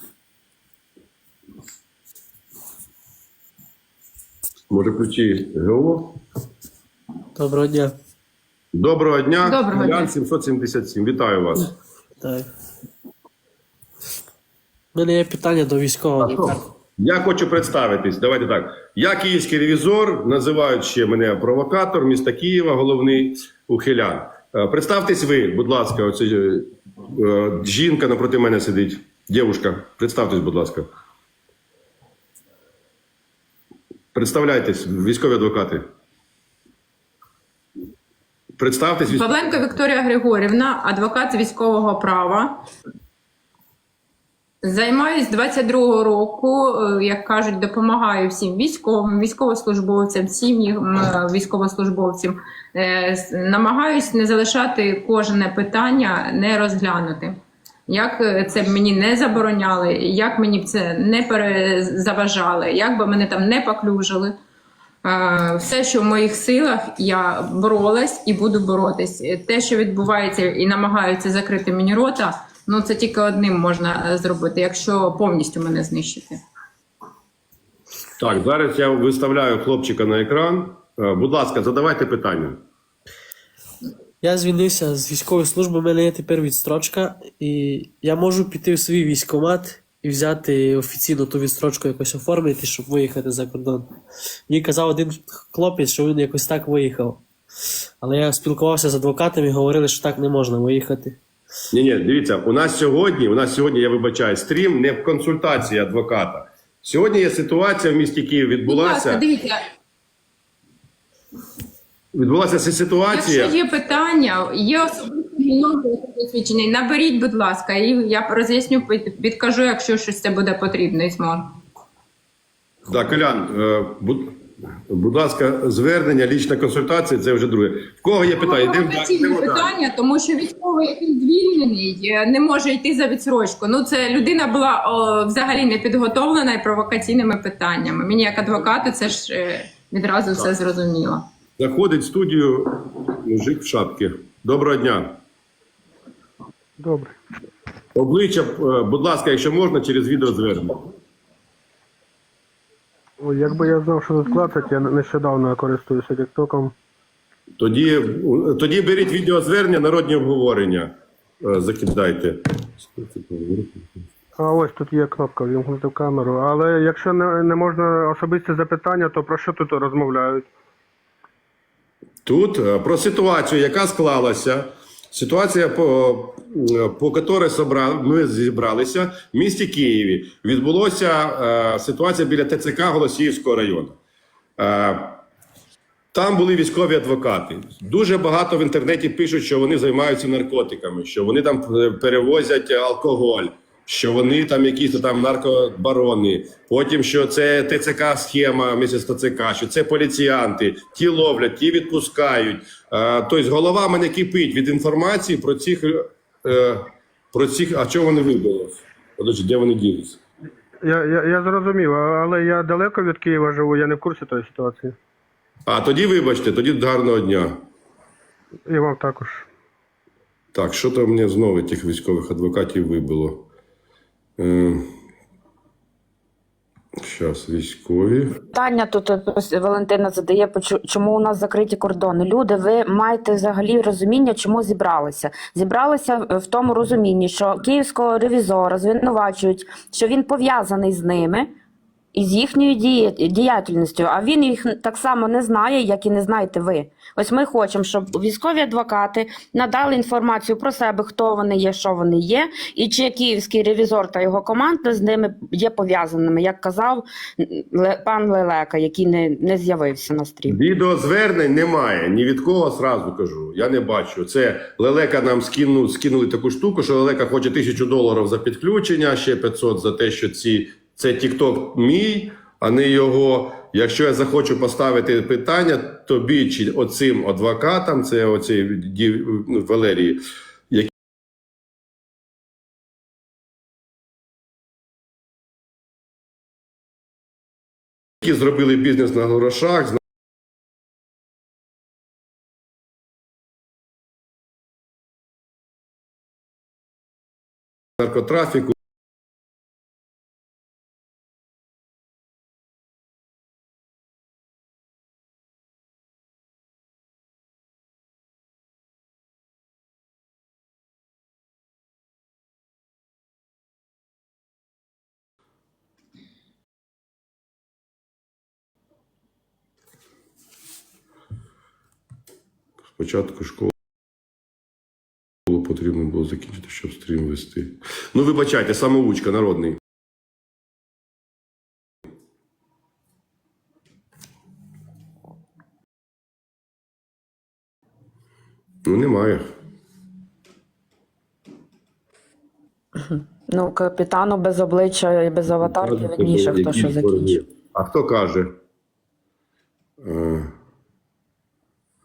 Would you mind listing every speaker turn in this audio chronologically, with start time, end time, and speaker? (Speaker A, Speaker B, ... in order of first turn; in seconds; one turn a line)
Speaker A: 4.7-6.2
Speaker B: 7.3-8.0
Speaker A: 8.7-11.7
Speaker C: 9.4-10.1
Speaker B: 12.2-12.5
Speaker B: 14.9-16.6
Speaker A: 16.2-30.9
Speaker A: 34.1-35.9
Speaker A: 38.6-39.5
Speaker C: 39.1-42.6
Speaker C: 44.6-64.3
Speaker C: 65.0-76.4
Speaker A: 78.2-82.6
Speaker B: 84.2-93.9
Speaker B: 94.5-97.2
Speaker B: 98.0-101.2
Speaker A: 101.7-109.2
Speaker C: 108.7-109.6
Speaker A: 112.1-113.5
Speaker C: 113.1-121.5
Speaker A: 122.9-124.3
Speaker A: 124.9-129.7
Speaker C: 128.4-141.2
Speaker A: 141.6-145.2
Speaker D: 146.8-147.2
Speaker A: 147.9-150.8
Speaker D: 153.2-156.7
Speaker A: 157.6-163.9
Speaker D: 164.4-170.5
Speaker A: 172.2-184.0
Speaker A: 184.6-185.2
Speaker A: 186.1-210.2
Speaker D: 210.8-215.0
Speaker A: 215.7-217.6
Speaker D: 218.7-219.4
Speaker A: 220.5-223.5
Speaker A: 224.4-224.9
Speaker A: 227.0-228.4
Speaker E: 228.5-241.5
Speaker E: 242.1-260.6
Speaker A: 260.5-280.9
Speaker A: 288.2-290.0
Speaker A: 298.0-298.8
Speaker A: 323.0-323.7
Speaker A: 325.5-329.8
Speaker A: 338.9-339.4
Speaker E: 343.0-347.4
Speaker A: 345.6-348.5
Speaker A: 350.0-350.5